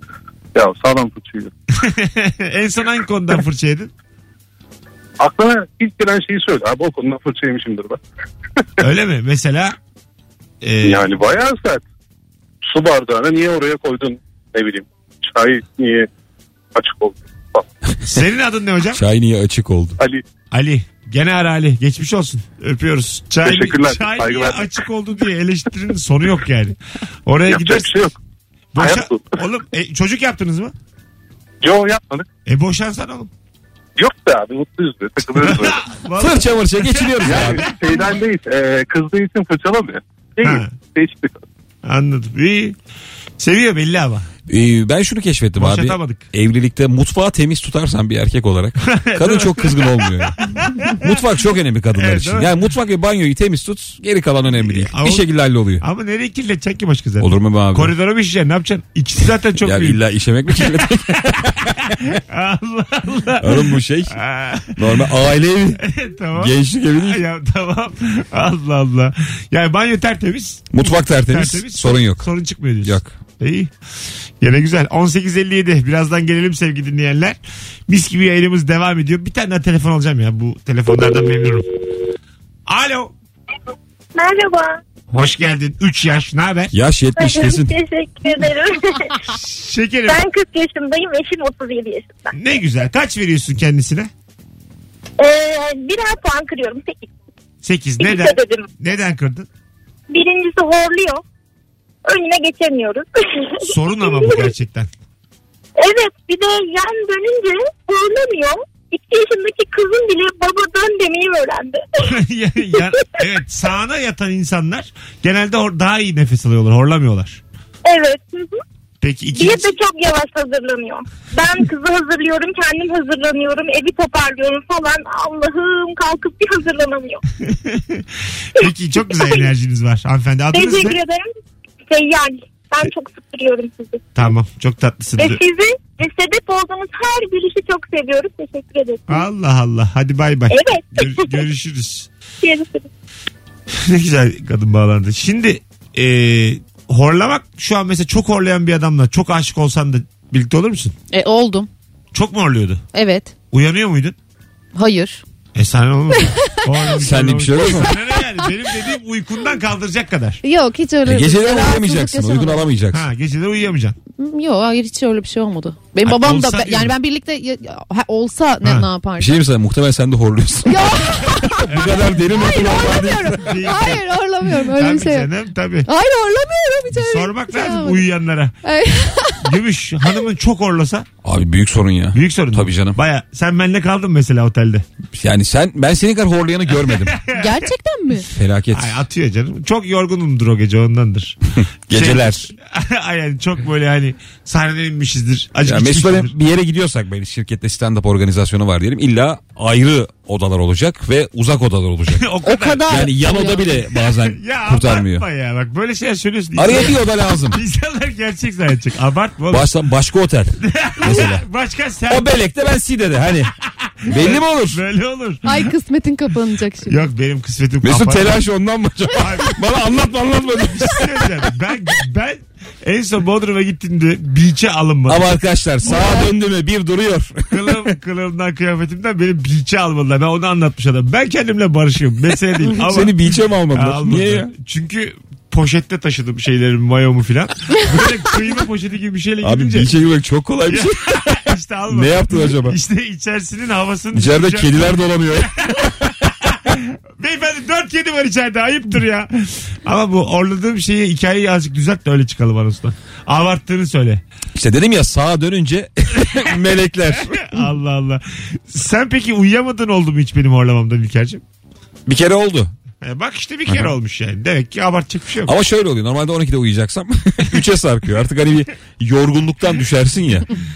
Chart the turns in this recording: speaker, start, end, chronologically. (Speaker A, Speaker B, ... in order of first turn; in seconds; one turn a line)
Speaker A: 0.5-1.5
Speaker B: 1.8-3.9
Speaker A: 5.2-8.0
Speaker B: 8.8-9.8
Speaker B: 10.6-11.1
Speaker A: 10.8-11.8
Speaker A: 12.7-16.1
Speaker A: 16.8-17.6
Speaker B: 18.0-19.0
Speaker C: 18.9-20.0
Speaker B: 20.5-27.9
Speaker A: 23.4-24.6
Speaker A: 27.5-28.1
Speaker B: 28.7-30.7
Speaker A: 28.8-29.3
Speaker A: 31.6-32.2
Speaker B: 32.5-33.3
Speaker A: 34.0-35.7
Speaker B: 35.3-38.2
Speaker C: 36.2-37.6
Speaker A: 37.5-41.3
Speaker B: 40.4-40.7
Speaker B: 41.8-42.8
Speaker B: 43.4-44.2
Speaker C: 44.5-50.4
Speaker B: 45.6-46.3
Speaker B: 48.8-51.1
Speaker C: 51.0-55.8
Speaker B: 51.9-52.5
Speaker B: 54.5-55.2
Speaker B: 55.8-60.0
Speaker C: 57.2-57.9
Speaker C: 59.6-62.2
Speaker B: 60.6-61.5
Speaker B: 62.1-65.0
Speaker C: 63.4-64.2
Speaker C: 64.7-65.8
Speaker B: 65.8-73.7
Speaker C: 66.3-67.2
Speaker C: 70.7-72.3
Speaker C: 72.8-73.1
Speaker B: 74.4-81.6
Speaker B: 82.7-83.1
Speaker D: 84.1-84.8
Speaker B: 85.1-86.7
Speaker C: 86.7-87.8
Speaker D: 87.1-89.4
Speaker B: 89.4-90.3
Speaker D: 90.0-92.3
Speaker B: 92.3-94.1
Speaker D: 95.2-97.1
Speaker B: 97.6-99.5
Speaker D: 98.0-98.7
Speaker D: 100.1-101.2
Speaker D: 102.0-104.5
Speaker B: 103.6-104.9
Speaker D: 105.8-112.2
Speaker B: 112.0-117.4
Speaker D: 117.8-118.6
Speaker B: 119.0-119.7
Speaker D: 119.3-127.2
Speaker B: 127.4-131.0
Speaker D: 128.6-129.5
Speaker D: 130.5-131.2
Speaker D: 131.9-134.0
Speaker B: 134.2-135.4
Speaker D: 135.2-139.2
Speaker B: 139.1-142.1
Speaker D: 140.5-141.4
Speaker D: 142.4-142.9
Speaker B: 143.7-150.9
Speaker E: 151.1-151.7
Speaker B: 152.1-152.8
Speaker E: 152.9-153.3
Speaker B: 153.5-154.2
Speaker E: 154.8-155.2
Speaker B: 155.5-160.4
Speaker E: 156.2-156.7
Speaker C: 157.0-157.9
Speaker E: 160.4-162.6
Speaker C: 161.0-163.0
Speaker B: 162.9-164.0
Speaker E: 164.2-169.3
Speaker B: 166.0-166.9
Speaker B: 168.6-168.9
Speaker C: 169.2-173.5
Speaker E: 170.7-175.3
Speaker B: 171.7-175.9
Speaker E: 175.8-178.1
Speaker B: 176.9-178.5
Speaker E: 178.6-179.5
Speaker B: 179.4-181.1
Speaker C: 181.2-183.0
Speaker B: 182.1-184.9
Speaker C: 185.1-187.2
Speaker E: 187.3-188.3
Speaker C: 188.3-189.0
Speaker B: 188.7-191.4
Speaker C: 191.9-192.5
Speaker B: 191.9-196.3
Speaker C: 195.6-202.2
Speaker B: 202.1-202.9
Speaker E: 202.4-203.8
Speaker C: 202.9-205.2
Speaker B: 204.2-209.7
Speaker C: 206.5-207.6
Speaker C: 209.5-211.4
Speaker B: 210.6-212.3
Speaker C: 212.1-213.5
Speaker B: 213.9-215.7
Speaker C: 214.1-214.8
Speaker E: 215.4-217.0
Speaker B: 216.8-218.4
Speaker C: 217.8-221.3
Speaker B: 219.1-219.7
Speaker B: 220.5-225.3
Speaker C: 225.1-227.9
Speaker E: 225.9-226.1
Speaker B: 225.9-226.2
Speaker B: 227.5-233.2
Speaker C: 232.8-234.5
Speaker B: 233.7-239.9
Speaker C: 239.4-242.8
Speaker B: 240.7-254.2
Speaker C: 244.1-246.1
Speaker C: 254.5-257.5
Speaker B: 257.3-261.4
Speaker C: 262.1-262.7
Speaker B: 263.0-265.5
Speaker C: 265.4-270.5